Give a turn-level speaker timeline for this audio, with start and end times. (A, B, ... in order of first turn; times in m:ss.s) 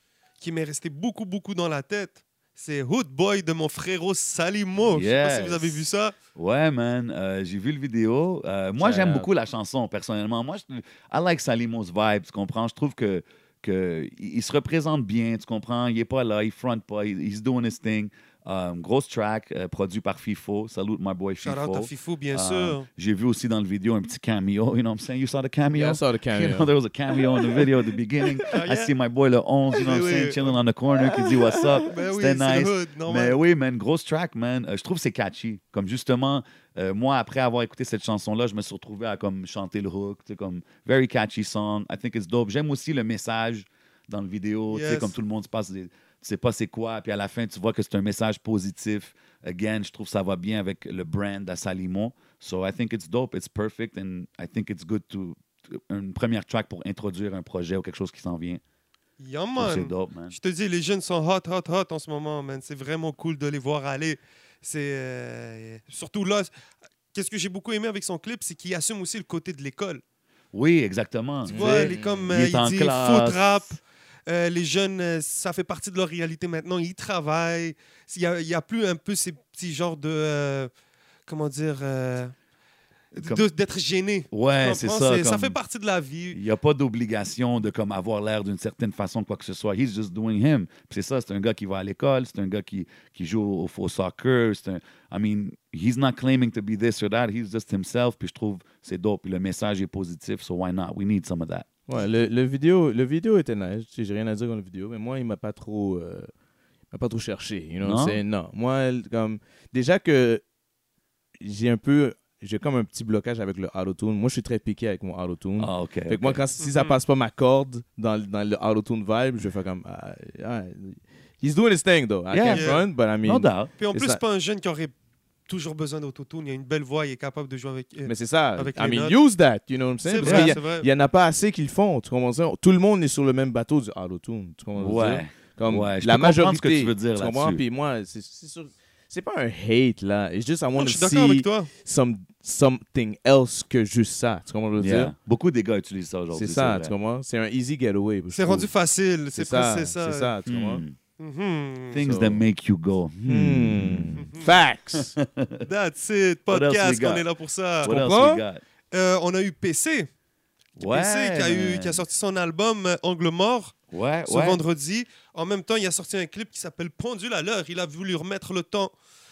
0:00.4-0:06.1 A
0:04.9-0:05.8 B
0:06.4-0:58.6 B
0:08.8-0:09.3 C
0:21.4-0:22.9 A
0:25.7-0:26.7 C
0:27.4-0:27.7 C
0:28.5-0:28.9 A
0:29.8-0:30.6 A
0:31.0-0:31.9 C
0:31.8-0:33.4 A
0:44.7-0:45.1 A
0:59.2-1:06.5 A
0:59.6-1:00.3 B
1:07.1-1:10.0 A
1:10.5-1:13.5 B
1:11.4-1:12.3 C
1:11.5-1:20.7 A
1:21.3-1:22.3 A
1:23.1-1:26.4 A
1:23.2-1:23.5 B
1:24.3-1:25.6 B
1:26.3-1:41.7 B
1:41.9-1:46.3 C
1:46.9-1:50.4 C
1:47.8-1:48.2 B
1:51.4-2:04.2 C
1:55.6-1:56.4 B
1:56.6-1:57.0 A
2:02.3-2:03.7 B
2:02.5-2:02.8 A
2:03.8-2:04.9 A
2:05.5-2:09.2 A
2:08.0-2:25.1 C
2:10.0-2:10.9 A
2:10.2-2:10.5 B
2:14.8-2:17.6 B
2:20.8-2:21.7 A
2:24.8-2:26.9 B
2:26.3-2:28.7 C
2:28.3-2:30.3 A
2:29.3-2:30.8 C
2:30.5-2:31.0 B
2:31.2-2:32.0 A
2:31.9-2:34.3 B
2:32.0-2:32.4 C
2:33.2-2:35.1 C
2:34.2-2:34.5 A
2:34.9-2:35.6 B
2:35.6-2:37.9 A
2:36.5-2:37.2 B
2:37.8-2:38.6 B
2:37.8-2:38.4 C
2:38.9-2:40.1 A
2:40.8-2:42.0 B
2:40.8-2:43.7 A
2:43.9-2:44.6 B
2:44.2-2:48.9 A